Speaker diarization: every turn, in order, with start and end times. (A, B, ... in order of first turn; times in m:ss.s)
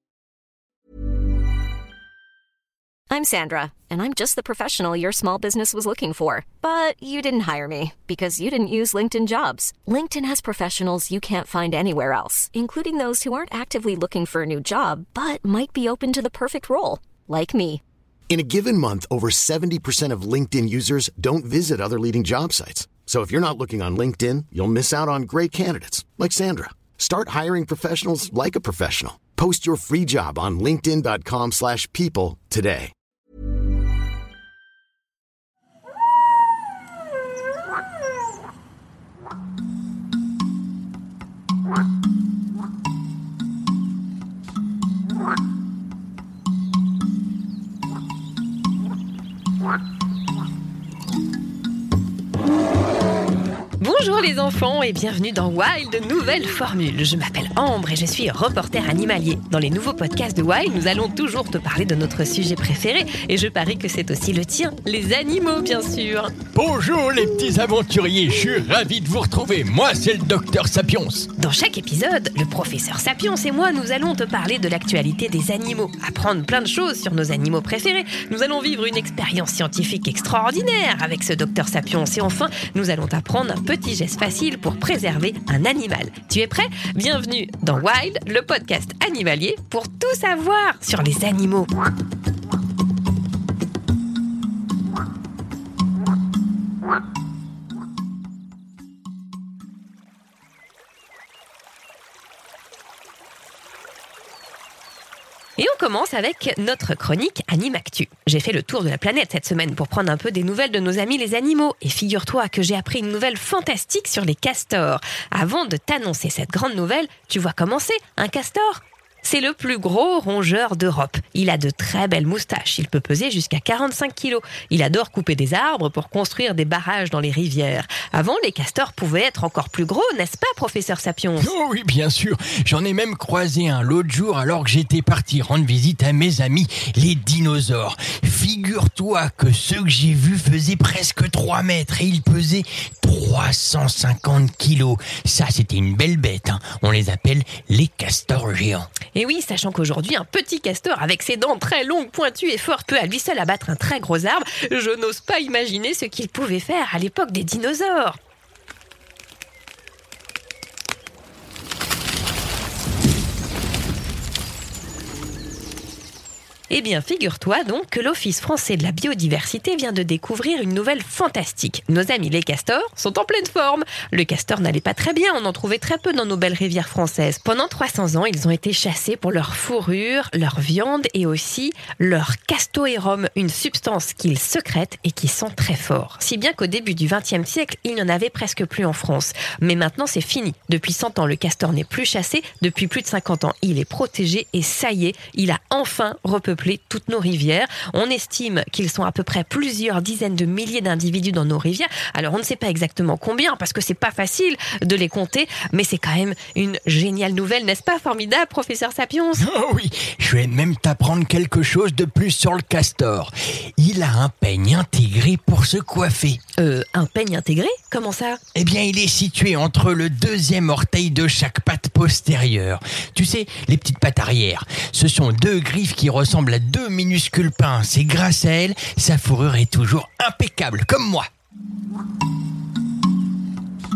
0:03.1-0:17.8 A
0:18.3-0:32.9 B
0:53.8-1:06.3 C
1:06.5-1:11.3 D
1:11.4-1:31.7 C
1:45.6-2:11.5 C
2:11.4-2:28.9 D
2:29.1-2:38.2 C
2:46.7-3:29.5 C
3:29.4-3:36.4 D
3:36.6-3:38.4 C
3:38.6-3:51.3 D